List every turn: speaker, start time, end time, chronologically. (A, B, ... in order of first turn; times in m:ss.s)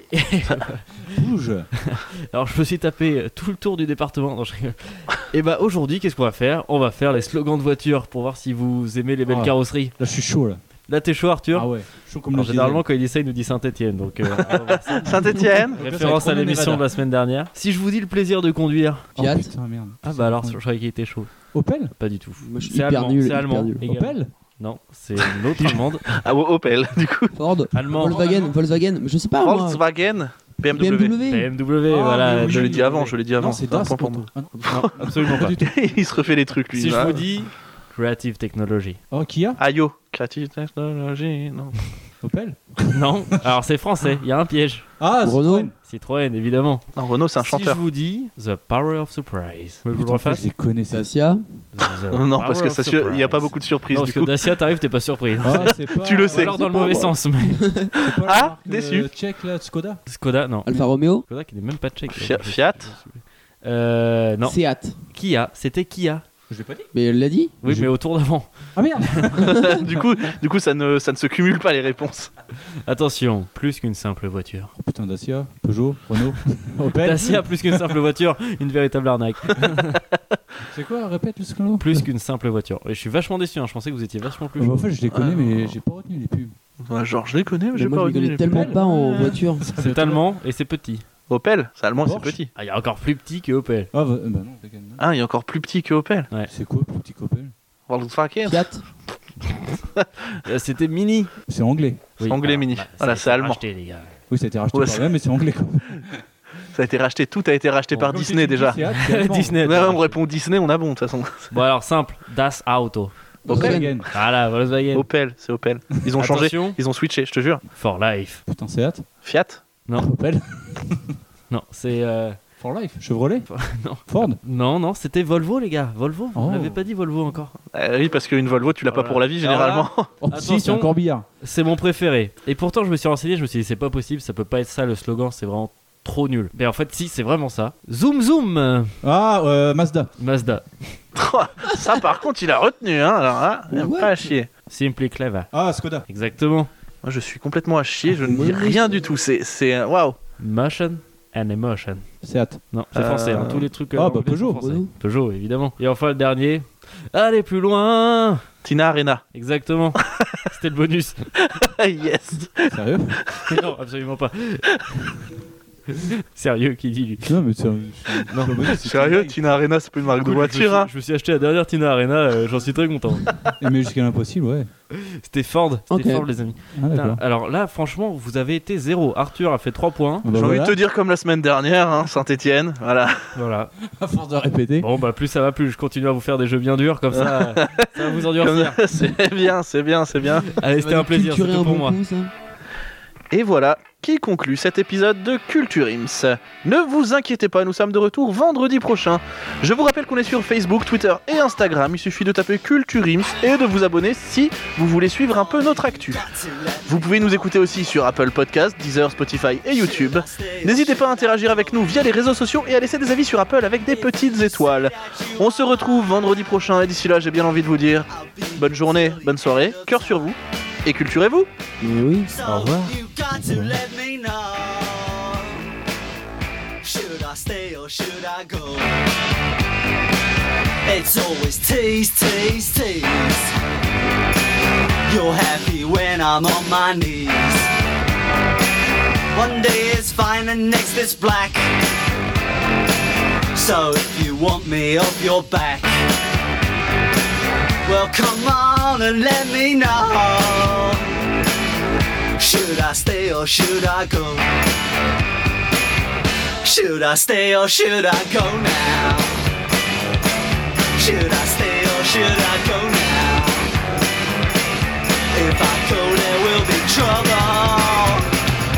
0:00.1-0:01.2 A
0:01.1-0:01.7 B
0:01.9-0:10.0 A
0:09.2-0:10.6 B
0:10.8-0:19.1 A
0:11.5-0:12.8 B
0:15.0-0:16.9 B
0:15.0-0:15.8 C
0:19.2-0:21.9 B
0:19.2-0:19.5 D
0:20.0-0:26.2 A
0:22.4-0:23.8 D
0:23.8-0:24.3 B
0:25.5-0:27.3 C
0:27.3-0:29.8 D
0:27.7-0:28.5 A
0:27.9-0:28.4 B
0:29.4-0:31.1 C
0:30.7-0:31.6 D
0:31.2-0:33.2 A
0:31.8-0:36.0 B
0:32.2-0:34.9 C
0:34.6-0:35.6 A
0:35.6-0:37.2 C
0:36.7-0:39.0 A
0:39.1-0:39.6 B
0:39.6-0:41.8 C
0:42.2-0:43.1 B
0:42.9-0:44.9 A
0:45.0-0:45.7 B
0:45.2-0:45.7 D
0:45.8-0:50.5 A
0:46.9-0:47.8 C
0:49.9-0:51.1 B
0:50.9-0:51.4 D
0:51.7-0:57.9 A
0:52.1-0:54.3 C
0:55.4-0:56.6 B
0:55.9-0:56.6 C
0:56.6-0:57.9 D
0:57.9-0:59.1 C
0:58.0-1:00.0 B
1:00.0-1:06.2 A
1:00.6-1:01.2 D
1:02.1-1:02.9 C
1:04.4-1:05.0 D
1:06.5-1:06.9 B
1:06.9-1:07.5 D
1:07.6-1:09.6 A
1:07.6-1:09.8 B
1:09.5-1:12.3 C
1:12.8-1:14.7 A
1:14.8-1:18.0 B
1:16.9-1:20.0 A
1:20.7-1:22.1 B
1:21.8-1:24.9 A
1:24.6-1:26.6 B
1:25.1-1:25.8 C
1:26.8-1:28.8 C
1:27.7-1:29.7 D
1:28.4-1:30.2 B
1:29.7-1:31.0 A
1:31.3-1:32.5 C
1:32.0-1:32.4 B
1:32.5-1:33.9 A
1:33.9-1:35.0 B
1:35.0-1:36.3 C
1:36.5-1:37.5 B
1:37.9-1:38.6 C
1:38.4-1:38.8 D
1:40.4-1:41.4 A
1:41.5-1:42.0 B
1:42.2-1:44.2 A
1:42.2-1:43.6 C
1:44.3-1:46.1 B
1:44.7-1:45.1 C
1:46.7-1:48.8 C
1:47.9-1:49.6 B
1:48.9-1:50.2 A
1:49.6-1:51.5 C
1:51.5-1:55.1 A
1:53.5-1:53.9 D
1:53.5-1:54.1 B
1:54.9-1:57.6 C
1:56.2-1:56.8 A
1:57.7-1:58.4 A
1:58.4-1:59.1 B
1:59.2-1:59.6 C
2:00.0-2:01.1 B
2:01.5-2:02.5 A
2:02.6-2:04.4 B
2:03.5-2:07.6 A
2:06.3-2:06.8 B
2:07.7-2:10.1 C
2:08.8-2:19.0 A
2:10.2-2:11.2 B
2:19.0-2:20.1 B
2:20.2-2:21.0 A
2:21.2-2:24.5 C
2:23.7-2:24.3 D
2:24.7-2:25.5 A
2:25.5-2:26.0 B
2:26.0-2:26.7 A
2:27.0-2:30.2 C
2:28.2-2:29.0 D
2:30.4-2:38.5 A
2:32.2-2:32.6 B
2:32.9-2:33.7 C
2:33.9-2:34.8 B
2:34.6-2:34.9 D
2:38.6-2:39.2 C
2:39.3-2:41.3 A
2:41.6-2:42.7 C
2:42.7-2:43.2 B
2:43.4-2:45.0 A
2:45.9-2:47.4 A
2:47.2-2:49.4 B
2:48.3-2:48.7 A
2:48.8-2:50.9 C
2:50.2-2:53.3 A
2:53.6-2:54.7 B
2:54.9-3:00.3 A
2:55.9-2:56.3 D
2:56.7-2:57.2 B
3:00.2-3:00.8 B
3:00.3-3:03.3 C
3:03.3-3:03.7 A
3:04.0-3:04.9 B
3:04.8-3:08.8 A
3:07.1-3:10.6 C
3:10.4-3:12.0 A
3:10.6-3:12.3 D
3:13.3-3:26.2 C
3:25.3-3:27.6 E
3:26.8-3:41.5 C
3:29.7-3:32.2 E
3:33.8-3:36.4 E
3:38.1-3:40.3 E
3:41.8-3:42.3 D
3:42.3-3:45.6 E
3:42.4-3:43.7 B
3:46.8-3:48.9 E
3:50.8-3:53.5 E
3:55.1-3:57.7 E
3:59.3-4:01.7 E
4:03.5-4:05.9 E
4:07.8-4:11.0 E
4:12.4-4:14.4 E
4:16.6-4:19.4 E
4:21.0-4:23.7 E
4:25.3-4:28.2 E